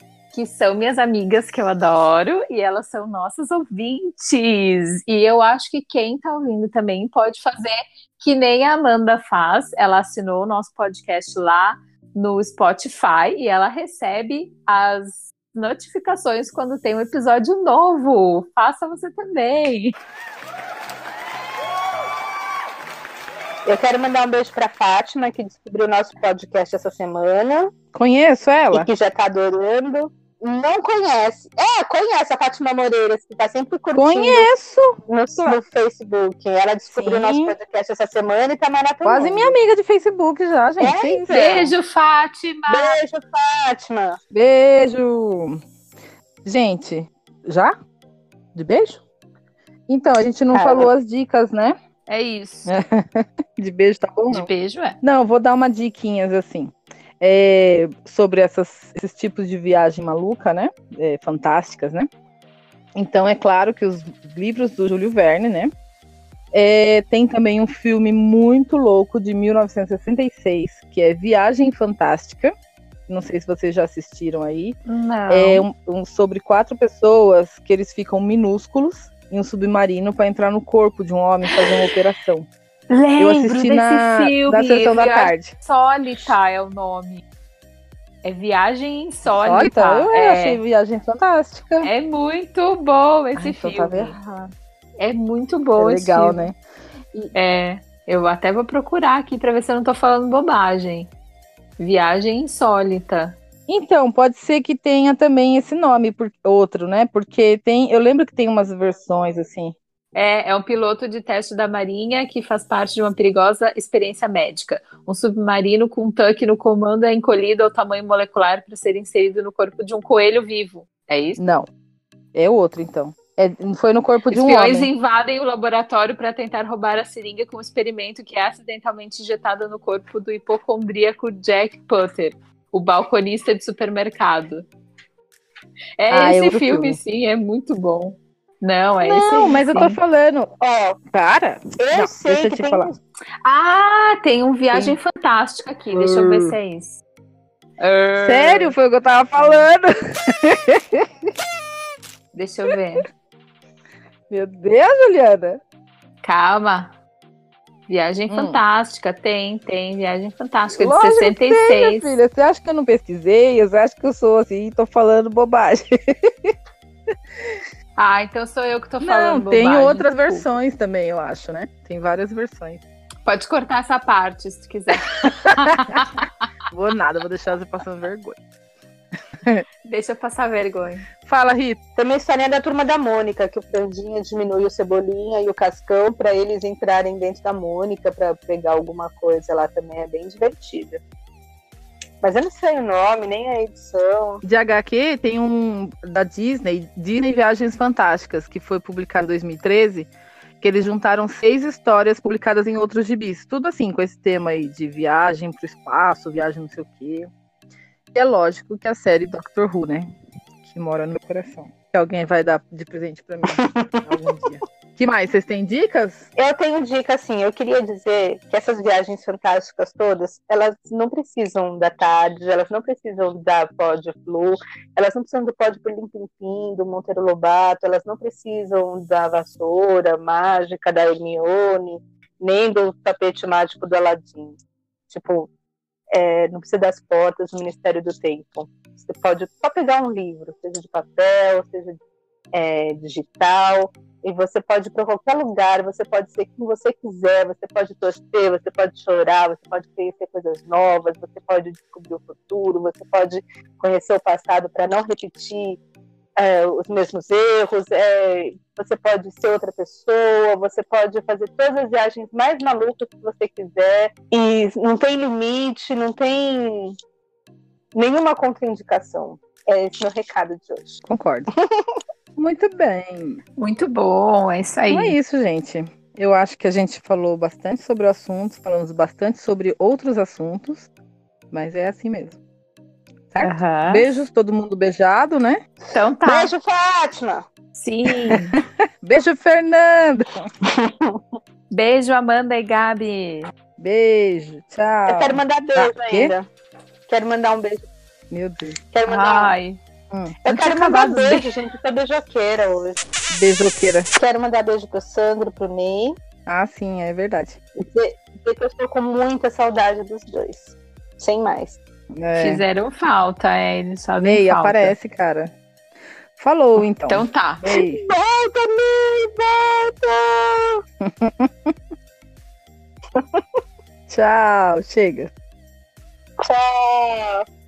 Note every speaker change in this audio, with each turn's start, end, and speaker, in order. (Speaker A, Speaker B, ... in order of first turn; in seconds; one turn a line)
Speaker A: 0.3-19.9
Speaker B: 23.6-27.7
Speaker C: 27.9-28.9
Speaker B: 28.7-34.5
Speaker C: 33.9-35.6
Speaker B: 35.1-39.5
Speaker C: 36.9-37.5
Speaker C: 39.0-41.3
Speaker B: 40.8-41.7
Speaker A: 41.3-43.0
Speaker B: 42.7-44.2
Speaker C: 44.3-45.6
Speaker C: 46.4-47.7
Speaker C: 48.5-49.0
Speaker C: 49.9-51.8
Speaker B: 50.5-50.9
Speaker A: 52.1-52.8
Speaker C: 52.7-54.5
Speaker A: 54.3-55.0
Speaker C: 55.0-62.1
Speaker C: 63.0-65.7
Speaker C: 66.5-72.5
Speaker C: 73.1-74.8
Speaker A: 74.9-75.7
Speaker C: 75.3-82.5
Speaker A: 81.5-81.7
Speaker A: 82.9-87.2
Speaker C: 83.2-85.5
Speaker A: 88.2-90.6
Speaker C: 89.2-91.9
Speaker A: 91.8-96.5
Speaker C: 93.3-94.1
Speaker C: 95.8-96.6
Speaker A: 97.3-101.1
Speaker A: 101.8-103.4
Speaker C: 103.7-109.7
Speaker A: 110.1-121.4
Speaker C: 121.4-121.7
Speaker C: 122.3-124.9
Speaker A: 124.3-134.7
Speaker A: 136.0-140.0
Speaker C: 136.1-137.0
Speaker C: 139.0-140.5
Speaker B: 140.6-141.0
Speaker C: 141.1-142.9
Speaker B: 141.8-143.0
Speaker A: 143.4-147.0
Speaker C: 144.7-145.0
Speaker C: 145.9-146.6
Speaker A: 147.8-148.8
Speaker C: 148.2-151.1
Speaker A: 149.3-149.7
Speaker A: 152.3-153.1
Speaker C: 154.3-155.6
Speaker A: 156.2-156.9
Speaker A: 157.9-162.1
Speaker C: 158.3-158.6
Speaker C: 160.7-166.5
Speaker C: 167.4-167.6
Speaker A: 168.0-170.4
Speaker C: 169.0-172.8
Speaker A: 173.2-176.3
Speaker C: 175.4-178.4
Speaker A: 179.9-181.1
Speaker C: 181.2-181.8
Speaker B: 181.9-191.0
Speaker B: 192.2-194.4
Speaker C: 194.4-200.1
Speaker C: 200.6-207.3
Speaker C: 208.1-210.1
Speaker C: 210.6-216.3
Speaker B: 213.6-214.0
Speaker B: 216.3-234.6
Speaker B: 235.1-235.5
Speaker B: 236.1-242.0
Speaker B: 242.5-255.8
Speaker B: 256.4-266.9
Speaker B: 267.9-271.0
Speaker C: 271.1-271.5
Speaker B: 271.6-271.9
Speaker C: 272.4-273.4
Speaker A: 273.6-275.1
Speaker C: 274.9-280.9
Speaker C: 281.5-282.4
Speaker C: 283.3-285.6
Speaker A: 283.4-284.1
Speaker A: 285.9-286.5
Speaker B: 286.2-287.4
Speaker A: 287.7-288.6
Speaker C: 289.0-290.5
Speaker B: 290.7-291.2
Speaker A: 291.7-293.5
Speaker C: 293.8-296.3
Speaker B: 295.1-296.5
Speaker B: 297.1-297.9
Speaker C: 298.3-298.8
Speaker B: 298.9-299.5
Speaker A: 299.1-299.8
Speaker B: 300.4-303.0
Speaker A: 300.4-301.5
Speaker C: 303.3-304.1
Speaker B: 304.1-306.1
Speaker C: 306.4-307.6
Speaker B: 307.8-311.8
Speaker C: 312.1-312.6
Speaker A: 312.4-314.9
Speaker C: 314.2-315.5
Speaker C: 316.4-318.0
Speaker A: 317.1-317.6
Speaker B: 317.7-320.8
Speaker C: 321.0-321.7
Speaker B: 323.1-323.4
Speaker C: 324.1-325.3
Speaker B: 326.4-327.4